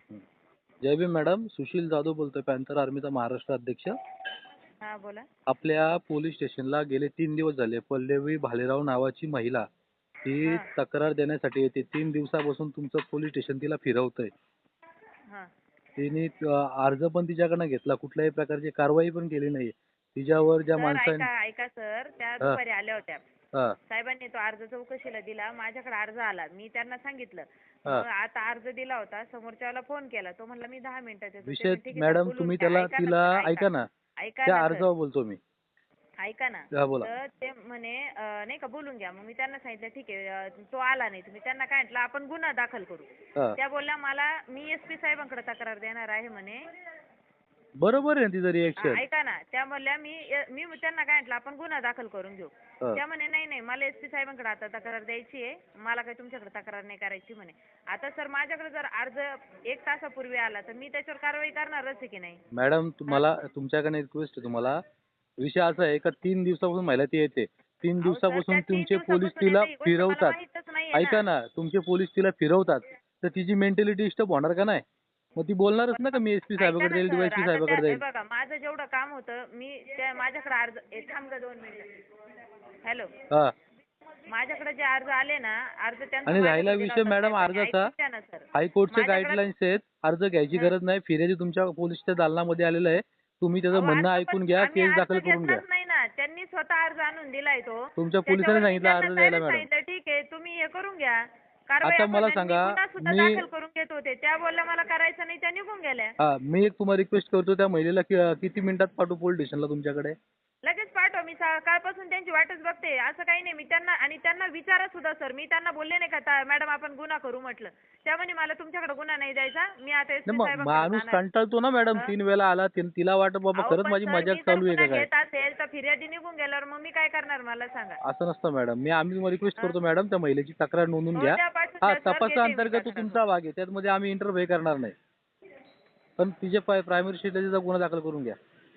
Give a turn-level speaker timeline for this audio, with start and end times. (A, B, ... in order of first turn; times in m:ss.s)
0:00.8-0:04.0 A
0:04.8-0:05.2 B
0:05.5-0:09.6 A
0:10.2-0:14.3 A
0:16.0-0:21.3 A
0:20.8-0:23.2 B
0:23.9-0:33.7 B
0:31.4-0:33.8 A
0:34.2-0:34.9 B
0:34.5-0:35.4 A
0:36.2-0:46.7 B
0:36.7-0:37.1 A
0:47.8-0:49.0 A
0:48.8-1:02.4 B
1:02.5-1:04.8 A
1:05.4-1:10.4 A
1:08.0-1:11.2 B
1:10.9-1:14.8 A
1:15.4-1:18.0 A
1:15.9-1:22.0 B
1:22.8-1:23.1 B
1:24.3-1:29.4 B
1:26.2-1:27.9 A
1:28.5-1:35.6 A
1:33.7-1:46.1 B
1:38.0-1:39.7 A
1:41.8-1:43.4 A
1:46.2-1:50.2 A
1:50.6-2:01.2 B
2:00.3-2:05.1 A
2:03.5-2:08.0 B
2:08.0-2:14.9 A
2:11.1-2:13.2 B
2:16.2-2:18.4 A